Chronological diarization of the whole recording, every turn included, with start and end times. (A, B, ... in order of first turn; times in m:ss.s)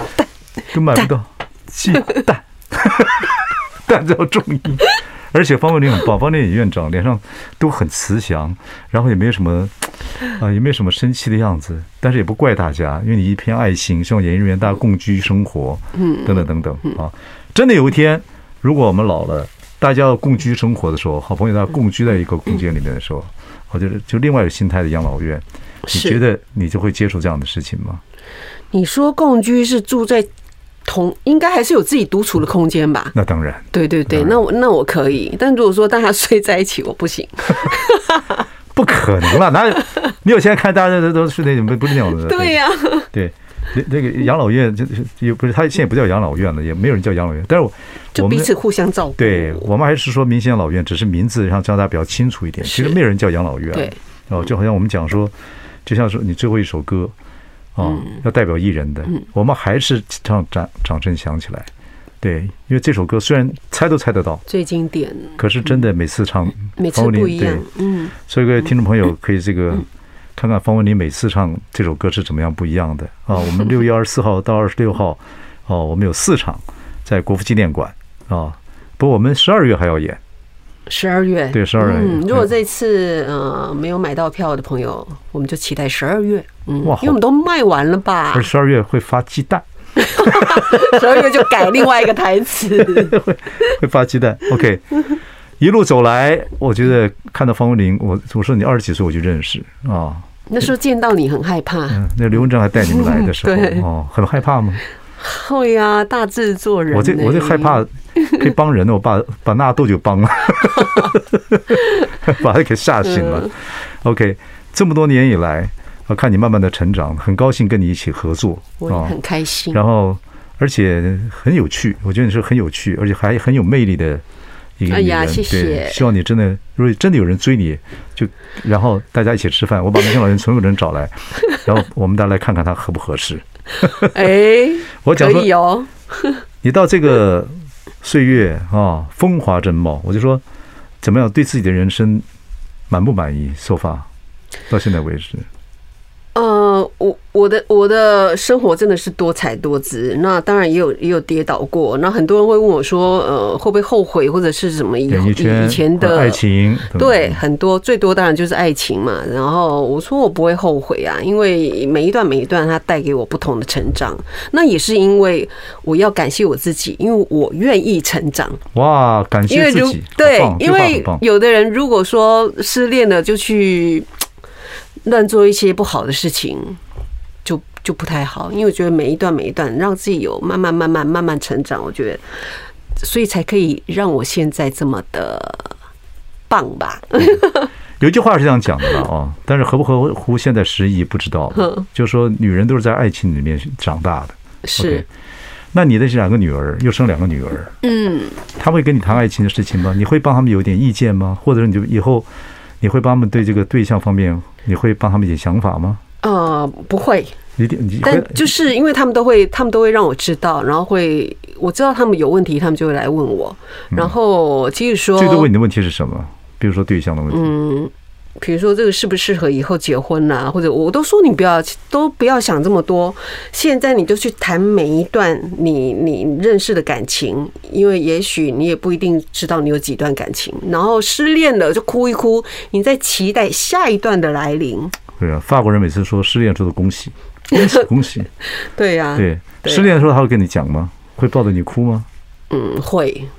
0:00.7-0:28.0 A
0:16.0-0:17.0 B
0:25.8-0:26.2 B
0:28.7-0:30.3 B
0:30.8-0:33.1 B
0:33.1-0:34.4 A
0:33.7-0:38.4 B
0:38.7-0:42.6 A
0:42.2-0:43.1 B
0:43.1-0:48.5 A
0:48.1-0:49.7 B
0:49.2-0:55.3 A
0:52.6-0:53.0 B
0:55.8-0:57.1 A
0:57.8-1:01.7 A
0:57.8-0:58.2 B
1:02.2-1:04.4 A
1:04.5-1:05.4 B
1:05.4-1:20.2 A
1:06.8-1:08.1 B
1:20.9-1:28.5 B
1:21.5-1:22.5 A
1:26.8-1:27.2 A
1:28.3-1:31.9 A
1:30.0-1:33.7 B
1:32.7-1:35.0 A
1:35.6-1:40.2 A
1:40.5-1:42.0 B
1:41.9-1:44.8 A
1:42.7-1:43.8 B
1:45.2-1:48.4 B
1:46.9-1:59.2 A
1:53.0-1:53.5 B
1:58.8-1:59.8 B
1:59.7-2:04.2 A
2:04.8-2:14.3 A
2:04.9-2:06.0 B
2:13.8-2:16.4 B
2:15.0-2:15.5 A
2:16.6-2:20.4 A
2:21.0-2:22.2 A
2:22.9-2:24.1 A
2:24.7-2:25.4 A
2:26.3-2:36.4 B
2:35.1-2:37.4 A
2:36.9-2:48.6 B
2:48.7-2:51.2 A
2:49.5-2:54.1 B
2:55.0-2:56.8 B
2:57.4-3:02.2 B
3:03.0-3:05.7 B
3:06.5-3:07.7 B
3:08.0-3:15.0 A
3:11.6-3:11.8 B
3:14.6-3:15.0 B
3:15.7-3:17.7 A
3:17.8-3:18.4 B
3:18.6-3:22.3 A
3:22.8-3:26.0 A
3:26.2-3:27.4 B
3:27.6-3:28.5 A
3:28.0-3:35.5 B
3:35.1-3:37.5 A
3:37.3-3:55.0 B
3:55.2-3:58.3 A
3:57.5-3:57.9 B
3:58.5-4:00.0 B
3:59.2-4:02.1 A
4:02.5-4:03.3 B